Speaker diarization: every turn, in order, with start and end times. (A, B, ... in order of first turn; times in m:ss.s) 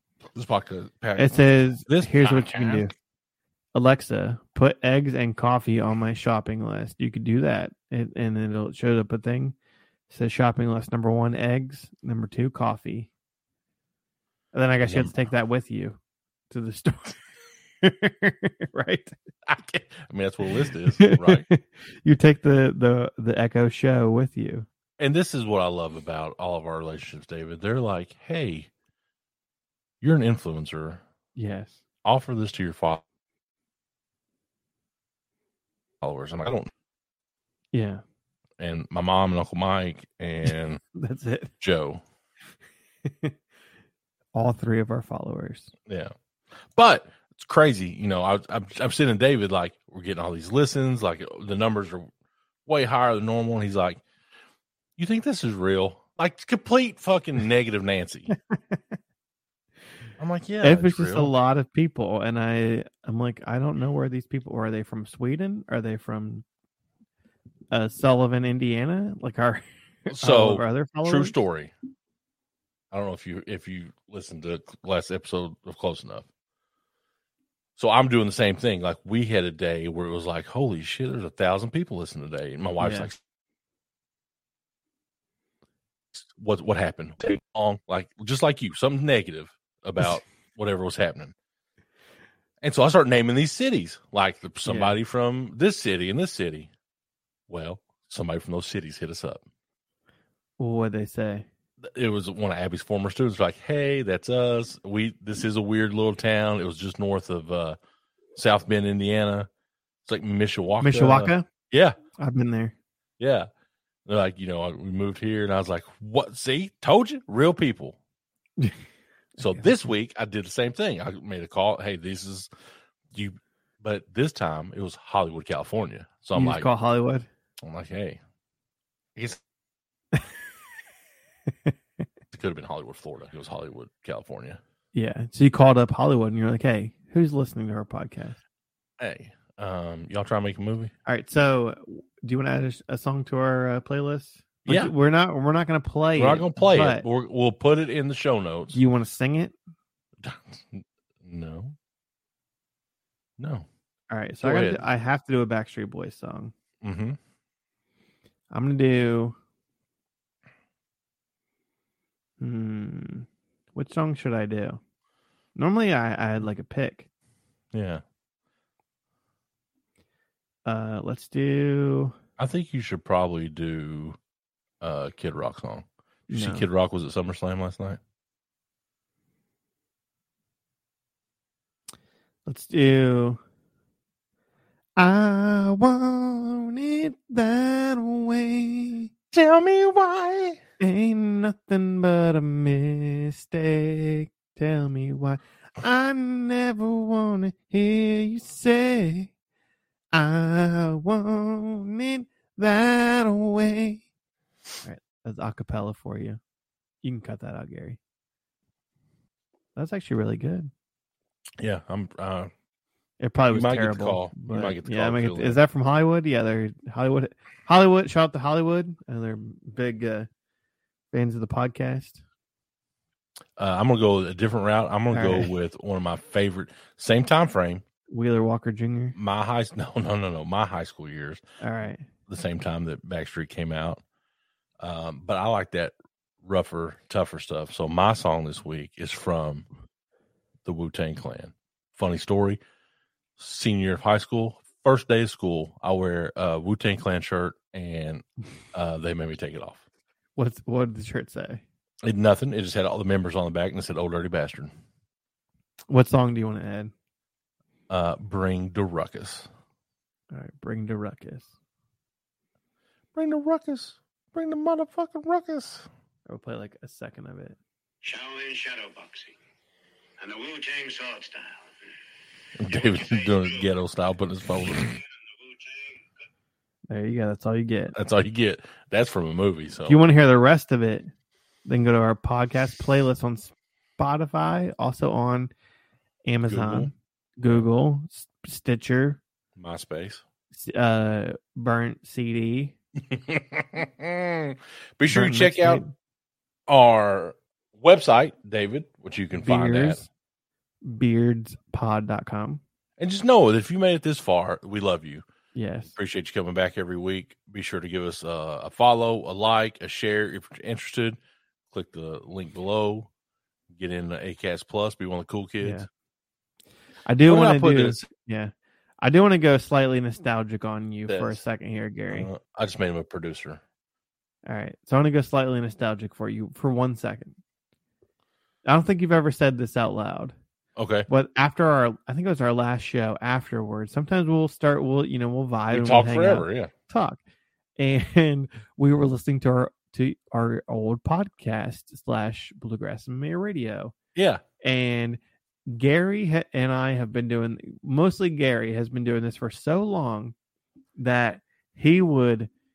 0:00.3-0:02.9 A
0:01.2-0:02.9 B
0:03.7-0:09.6 B
0:10.1-0:13.1 B
0:14.5-0:16.0 B
0:14.9-0:15.1 A
0:16.5-0:17.3 B
0:17.8-0:19.1 B
0:19.4-0:21.4 A
0:20.9-0:24.7 B
0:25.0-0:28.7 A
0:30.0-0:31.0 A
0:31.3-0:31.8 B
0:32.0-0:33.0 A
0:36.0-0:36.7 A
0:37.7-0:38.0 B
0:38.6-0:40.8 A
0:40.9-0:41.5 B
0:41.6-0:42.0 A
0:43.0-0:43.3 B
0:44.3-0:45.7 B
0:45.9-0:46.1 A
0:46.7-0:52.1 A
0:52.6-0:54.0 A
0:55.0-0:58.3 A
0:58.5-0:58.8 B
1:00.2-1:01.3 A
1:00.6-1:06.4 B
1:07.7-1:11.4 B
1:10.1-1:11.7 A
1:12.9-1:16.3 A
1:17.8-1:23.2 A
1:22.8-1:23.1 B
1:26.1-1:31.3 A
1:32.6-1:36.7 A
1:34.6-1:35.0 B
1:37.5-1:39.4 A
1:40.6-1:41.5 B
1:41.8-1:47.8 A
1:48.3-1:49.5 A
1:50.0-1:52.0 A
1:50.8-1:51.4 B
1:52.2-1:52.7 B
1:53.2-1:53.5 A
1:54.0-1:58.0 A
1:59.4-1:59.7 B
1:59.4-2:02.5 A
2:03.1-2:06.7 A
2:06.3-2:07.3 B
2:07.6-2:08.2 A
2:09.2-2:09.4 A
2:12.3-2:14.6 A
2:14.9-2:18.4 B
2:19.0-2:20.9 A
2:21.0-2:27.0 B
2:24.7-2:24.9 A
2:26.2-2:28.8 A
2:28.7-2:29.5 B
2:30.2-2:31.8 A
2:33.4-2:33.7 A
2:34.1-2:36.5 B
2:34.4-2:34.8 A
2:36.8-2:37.2 A
2:38.5-2:39.4 B
2:42.4-2:44.8 B
2:45.6-2:47.0 B
2:47.7-2:48.0 A
2:50.6-2:52.1 B
2:52.4-2:54.2 A
2:54.8-2:58.0 A
2:56.3-2:56.7 B
3:02.4-3:03.4 B
3:05.0-3:09.1 B
3:09.3-3:10.6 A
3:10.8-3:19.3 B
3:20.1-3:24.0 B
3:24.8-3:26.4 B
3:27.0-3:28.0 B
3:29.8-3:30.7 B
3:31.6-3:32.5 A
3:33.2-3:40.3 B
3:33.5-3:35.6 A
3:41.1-3:42.2 B
3:43.6-3:47.8 A
3:45.1-3:45.5 B
3:48.1-3:49.1 B
3:49.1-3:51.4 A
3:51.6-3:52.1 B
3:52.3-3:54.0 A
3:54.8-3:59.6 A
4:00.6-4:02.6 A
4:03.4-4:09.8 A
4:10.4-4:11.6 B
4:12.0-4:14.7 A
4:15.9-4:16.9 B
4:17.9-4:19.5 A
4:20.3-4:21.5 B
4:23.1-4:25.9 A
4:26.3-4:27.6 B
4:28.0-4:29.4 C
4:30.2-4:31.9 C
4:32.6-4:35.0 A
4:32.7-4:33.7 C
4:34.7-4:36.1 C
4:36.9-4:37.9 B
4:37.9-4:40.0 A
4:39.9-4:41.1 B
4:41.6-4:45.5 B
4:46.3-4:49.2 B
4:46.4-4:46.9 A
4:49.6-4:50.2 A
4:50.5-4:52.7 B
4:53.0-4:55.8 A
4:55.1-4:55.9 B
4:56.7-5:00.0 A
4:59.4-5:00.1 B
5:00.8-5:02.6 B
5:03.0-5:05.2 A
5:05.5-5:05.9 B
5:05.9-5:11.2 A
5:11.7-5:13.1 A
5:13.7-5:15.8 A
5:15.6-5:15.9 B
5:17.0-5:22.3 B
5:17.3-5:18.1 A
5:21.1-5:21.4 A
5:22.1-5:23.6 A
5:24.4-5:27.4 B
5:28.6-5:30.3 B
5:30.8-5:31.1 A
5:31.1-5:37.2 B
5:35.7-5:36.7 A
5:37.8-5:43.9 B
5:44.1-5:44.4 A
5:44.6-5:50.3 B
5:51.0-5:52.5 B